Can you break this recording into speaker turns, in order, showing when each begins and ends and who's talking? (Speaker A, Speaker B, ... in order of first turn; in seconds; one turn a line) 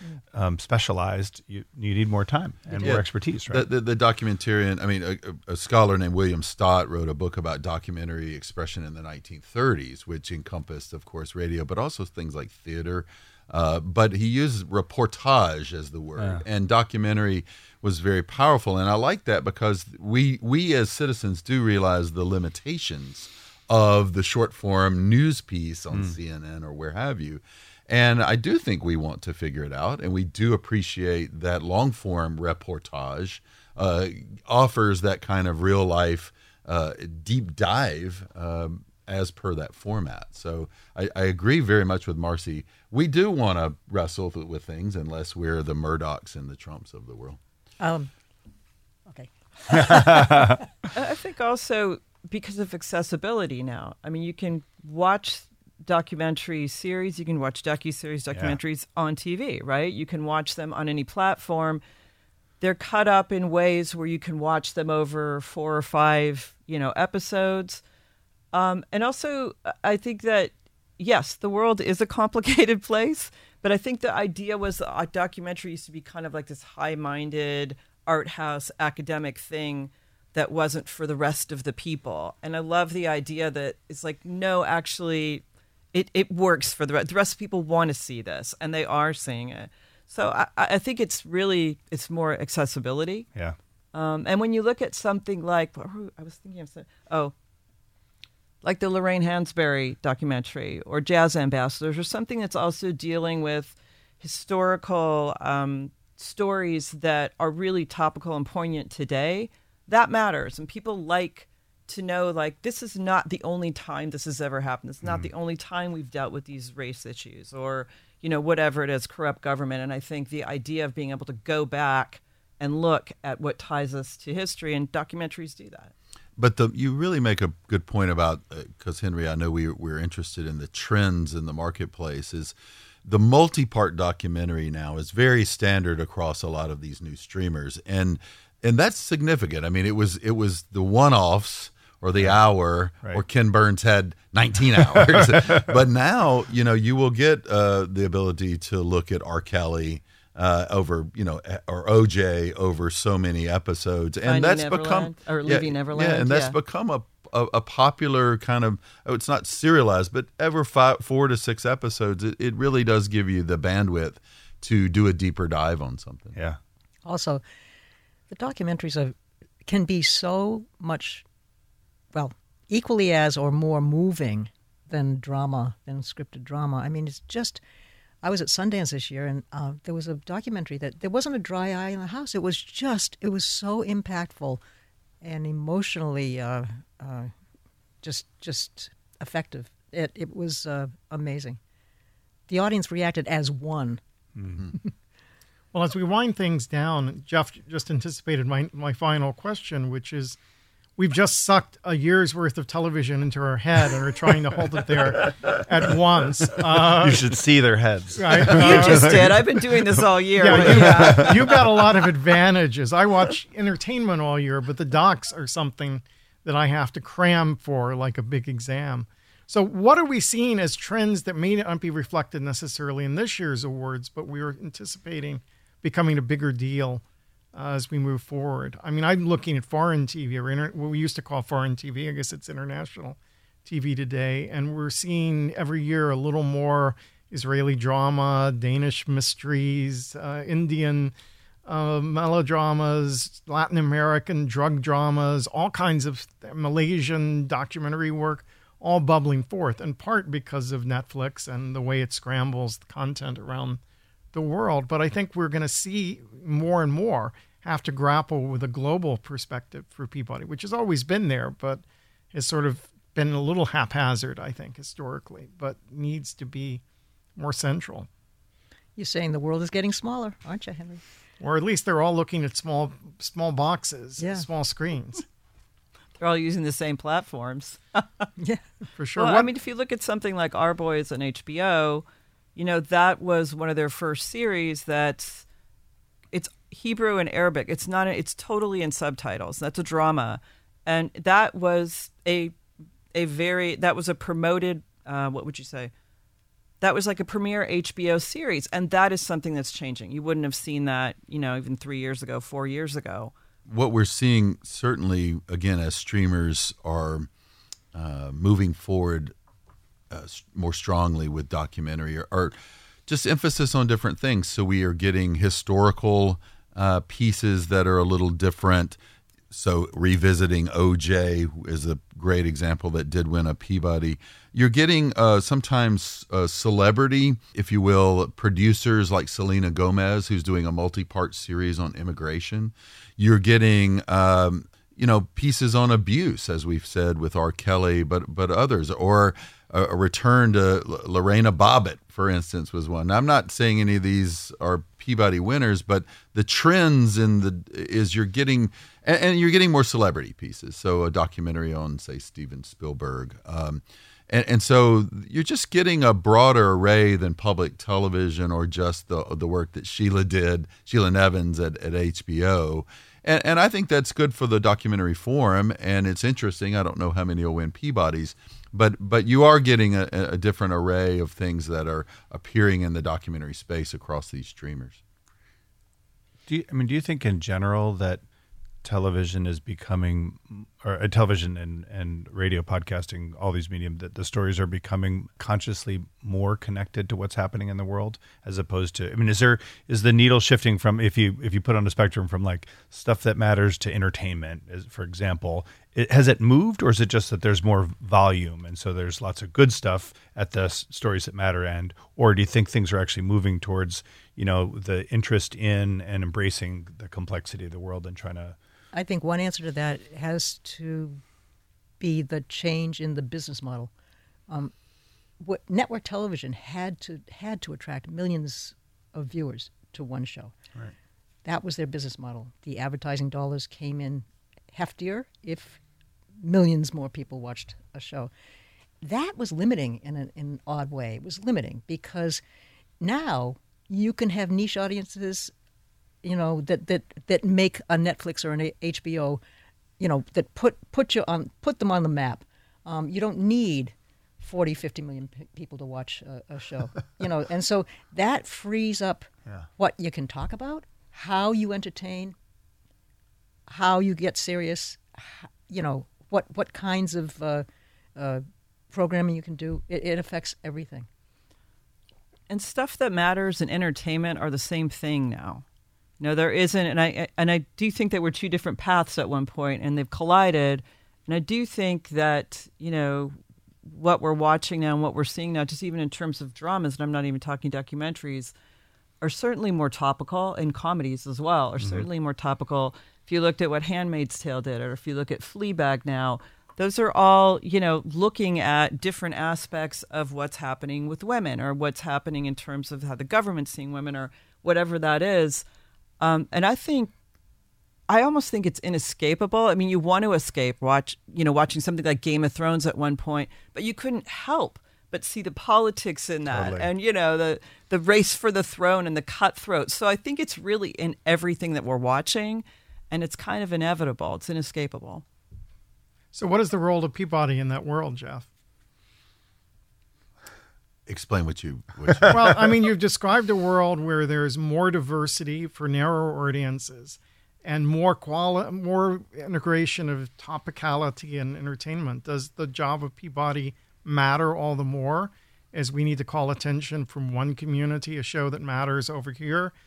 Speaker A: 0.3-3.6
Speaker B: 2.8-47.4
Speaker A: 16.2-16.4
Speaker A: 25.9-26.2
Speaker C: 47.8-48.1
Speaker C: 49.1-50.6
Speaker A: 49.8-50.6
Speaker D: 51.0-61.8
Speaker A: 58.3-58.6
Speaker D: 62.6-67.8
Speaker D: 68.5-93.3
Speaker D: 93.9-97.3
Speaker D: 98.6-125.9
Speaker A: 115.0-115.3
Speaker B: 126.4-166.4
Speaker A: 144.9-145.6
Speaker D: 154.3-156.6
Speaker C: 167.1-167.4
Speaker C: 168.3-169.2
Speaker C: 169.7-171.2
Speaker C: 172.1-177.6
Speaker C: 178.2-184.6
Speaker C: 185.2-187.3
Speaker C: 188.0-191.6
Speaker C: 192.5-194.0
Speaker A: 194.4-194.7
Speaker E: 195.7-200.4
Speaker E: 201.0-207.4
Speaker A: 206.8-211.7
Speaker E: 208.2-209.4
Speaker D: 208.5-211.5
Speaker E: 210.4-227.0
Speaker E: 227.5-241.2
Speaker E: 241.7-253.8
Speaker E: 254.3-266.8
Speaker E: 267.4-268.1
Speaker C: 269.0-271.0
Speaker E: 271.4-275.2
Speaker C: 274.2-274.5
Speaker D: 276.2-278.3
Speaker C: 278.4-278.6
Speaker E: 279.0-279.5
Speaker D: 279.2-285.4
Speaker D: 286.3-292.5
Speaker D: 293.1-295.9
Speaker D: 296.8-303.3
Speaker B: 303.7-307.3
Speaker B: 307.9-309.3
Speaker B: 310.1-312.6
Speaker B: 313.1-319.0
Speaker B: 319.5-375.0
Speaker A: 376.5-378.2
Speaker A: 378.8-408.6
Speaker C: 408.9-411.2
Speaker C: 412.0-413.9
Speaker C: 415.4-420.5
Speaker C: 421.4-425.8
Speaker C: 426.4-428.3
Speaker C: 429.0-432.4
Speaker C: 433.0-435.5
Speaker C: 436.2-439.4
Speaker C: 440.0-452.4
Speaker C: 453.7-457.7
Speaker C: 458.2-461.1
Speaker D: 462.5-465.6
Speaker D: 466.2-478.5
Speaker D: 479.2-495.6
Speaker A: 481.8-482.1
Speaker D: 496.2-497.1
Speaker D: 498.1-515.2
Speaker A: 506.5-506.9
Speaker E: 516.3-518.5
Speaker B: 521.1-522.5
Speaker E: 522.3-539.7